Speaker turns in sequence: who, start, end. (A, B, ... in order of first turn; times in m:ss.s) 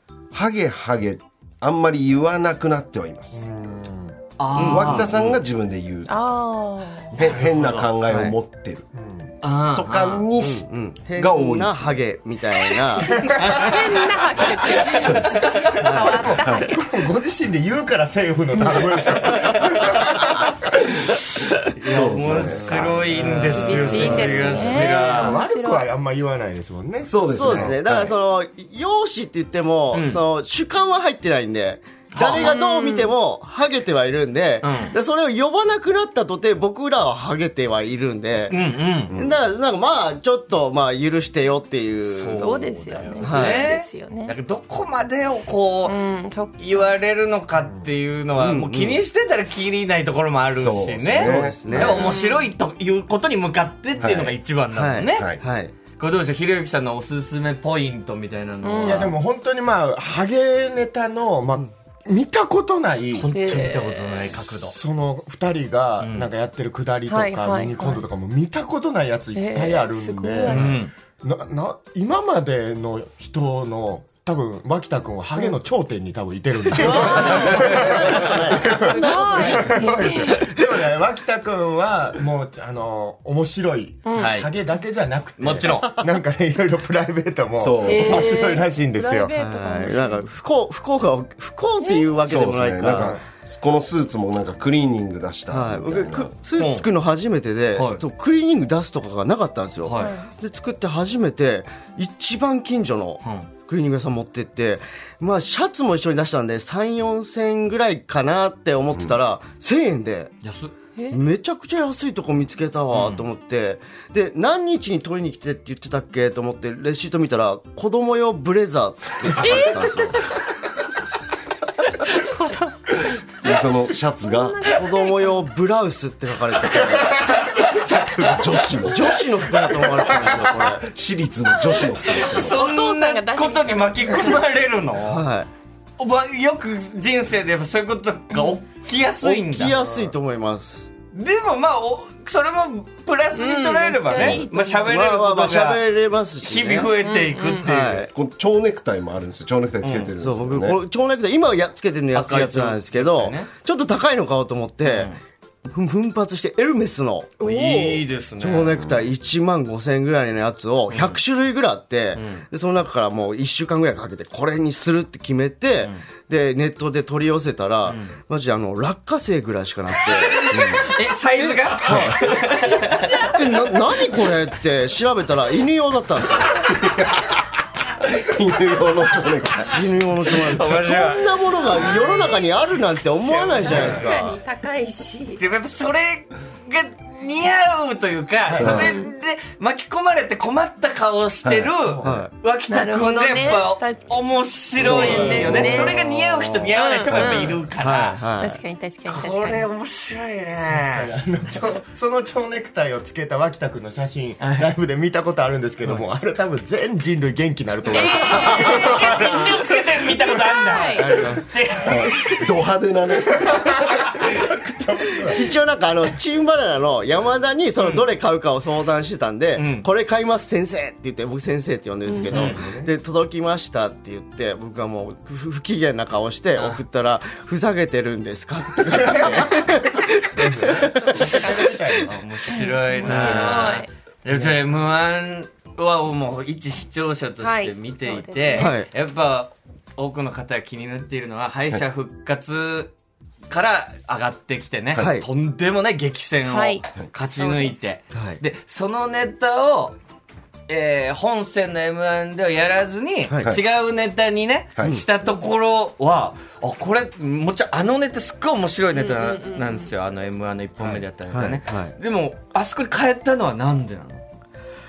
0:00.3-0:03.4 A
0:03.3-0:04.2 B
0:04.4-0:05.3 C
0:04.5-0:05.3 D
0:04.6-0:06.3 A
0:06.1-0:07.2 E
0:07.1-0:07.9 C
0:07.1-0:08.8 A
0:08.1-0:08.3 D
0:09.0-0:09.3 B
0:09.4-0:10.2 C
0:09.7-0:12.1 A
0:10.4-0:13.4 D
0:13.1-0:13.8 B
0:13.5-0:16.9 E
0:14.4-0:20.6 B
0:14.9-0:16.7 A
0:15.8-0:16.2 D
0:21.7-0:25.4 C
0:21.8-0:24.9 A
0:22.7-0:24.5 D
0:23.5-0:25.9 E
0:24.8-0:27.7 B
0:27.0-0:28.1 A
0:27.3-0:38.6 D
0:29.9-0:30.2 C
0:32.1-0:32.5 C
0:32.4-0:33.1 E
0:34.6-0:34.9 C
0:38.5-0:39.1 C
0:39.1-0:39.4 A
0:39.1-0:43.7 D
0:42.0-0:46.0 C
0:42.4-0:44.3 E
0:45.8-0:46.9 E
0:46.6-0:55.3 C
0:47.6-0:47.9 B
0:48.3-0:49.0 D
0:50.6-0:51.8 A
0:51.1-0:52.0 D
0:51.8-0:52.5 E
0:54.0-0:54.4 A
0:54.7-0:55.7 D
0:55.1-0:55.4 A
0:56.0-0:59.1 C
0:58.6-0:59.0 E
0:58.8-1:03.3 B
1:03.1-1:04.7 C
1:03.3-1:04.1 E
1:04.7-1:29.3 B
1:06.0-1:06.3 C
1:07.1-1:08.0 E
1:09.3-1:10.7 E
1:10.5-1:10.9 C
1:16.7-1:18.2 E
1:17.1-1:19.8 D
1:18.7-1:20.5 E
1:24.0-1:24.4 E
1:24.2-1:24.5 C
1:25.4-1:26.0 C
1:27.6-1:28.4 A
1:27.8-1:30.3 E
1:29.4-1:33.2 D
1:31.8-1:32.2 E
1:32.2-1:36.4 A
1:35.5-1:50.4 D
1:36.5-1:36.9 C
1:37.7-1:38.0 C
1:39.8-1:40.1 C
1:40.0-1:40.3 E
1:43.2-1:43.5 C
1:48.9-1:49.2 A
1:50.4-1:50.7 C
1:51.1-2:00.3 D
1:52.9-1:53.2 C
1:59.4-2:00.2 E
2:01.9-2:03.0 E
2:03.4-2:04.7 A
2:04.2-2:05.4 E
2:04.7-2:07.4 D
2:07.3-2:08.3 B
2:07.6-2:08.4 C
2:08.2-2:09.1 A
2:08.8-2:10.9 D
2:09.6-2:10.3 B
2:10.8-2:12.6 A
2:12.1-2:15.2 C
2:12.2-2:14.4 E
2:15.0-2:15.5 D
2:16.0-2:19.8 C
2:19.2-2:20.9 D
2:21.1-2:25.8 C
2:23.3-2:25.0 E
2:24.2-2:27.0 D
2:26.4-2:28.1 C
2:27.0-2:27.7 E
2:27.6-2:28.1 D
2:28.1-2:30.8 A
2:29.8-2:30.1 C
2:30.1-2:35.1 D
2:32.1-2:33.5 C
2:34.8-2:35.2 C
2:35.6-2:50.8 D
2:37.4-2:37.9 E
2:37.4-2:38.8 C
2:38.8-2:39.1 A
2:40.9-2:41.2 C
2:42.1-2:42.4 C
2:47.8-2:48.2 C
2:50.2-2:53.4 C
2:50.5-2:50.8 A
2:51.4-2:56.7 D
2:56.6-2:57.4 A
2:58.0-2:59.8 A
2:59.7-3:04.4 D
3:00.2-3:02.0 C
3:03.2-3:04.1 C
3:03.6-3:05.4 E
3:05.4-3:18.2 C
3:08.5-3:08.9 A
3:08.7-3:09.1 E
3:11.4-3:11.7 A
3:11.9-3:12.2 B
3:12.0-3:12.3 D
3:12.7-3:14.0 E
3:14.8-3:16.1 E
3:14.8-3:15.7 A
3:15.1-3:15.9 D
3:15.5-3:15.9 B
3:16.7-3:17.6 E
3:17.8-3:18.6 D
3:18.4-3:19.7 E
3:19.0-3:21.5 C
3:20.7-3:29.6 B
3:24.4-3:24.6 C
3:27.9-3:29.5 E
3:28.1-3:32.3 C
3:30.4-3:31.1 E
3:31.0-3:31.4 D
3:31.7-3:34.0 A
3:33.4-3:35.5 B
3:35.3-3:51.9 D
3:39.6-3:39.9 C
3:42.0-3:42.4 E
3:42.2-3:42.9 B
3:42.3-3:42.6 C
3:50.4-3:52.1 B
3:51.1-3:51.6 E
3:52.0-4:02.9 C
3:52.5-3:53.9 E
3:53.0-3:53.7 B
3:54.3-3:54.7 B
3:57.4-3:58.8 E
3:58.6-3:58.9 D
4:03.5-4:10.0 C
4:05.0-4:05.2 D
4:06.4-4:06.8 E
4:07.3-4:07.8 E
4:08.1-4:08.4 D
4:10.7-4:24.2 C
4:13.3-4:13.5 D
4:14.8-4:15.0 A
4:19.0-4:19.8 E
4:20.8-4:21.9 D